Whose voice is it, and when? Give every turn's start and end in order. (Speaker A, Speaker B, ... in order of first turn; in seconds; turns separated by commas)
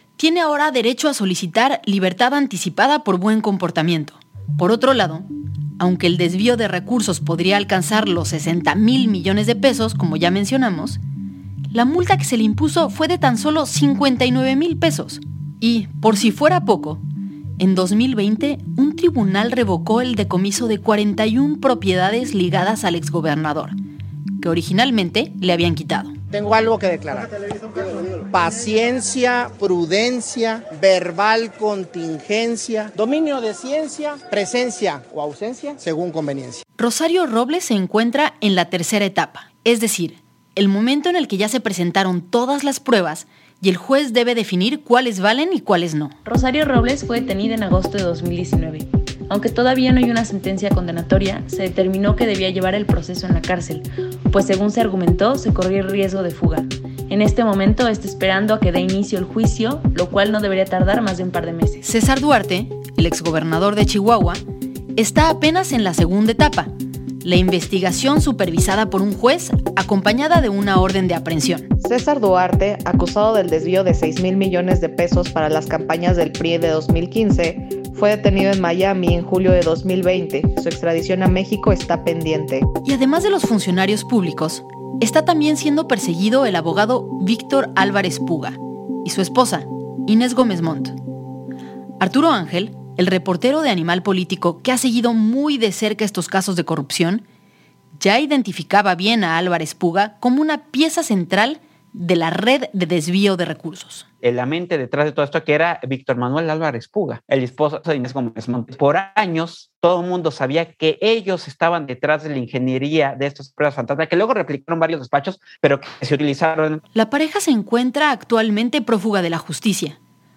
Speaker A: 0.2-5.3, Speaker A: 5.8-11.0, Speaker A: 11.7-17.0, Speaker A: 17.6-23.8, Speaker A: 24.4-26.1, Speaker B: 26.3-27.3, Speaker B: 28.1-36.6, Speaker A: 36.8-46.1, Speaker C: 46.2-61.8, Speaker A: 61.8-64.4, Speaker A: 65.0-66.7, Speaker A: 67.2-71.7, Speaker D: 71.8-82.6, Speaker A: 82.8-91.0, Speaker A: 92.0-97.2, Speaker A: 98.0-104.0, Speaker E: 104.2-116.8, Speaker A: 116.9-120.0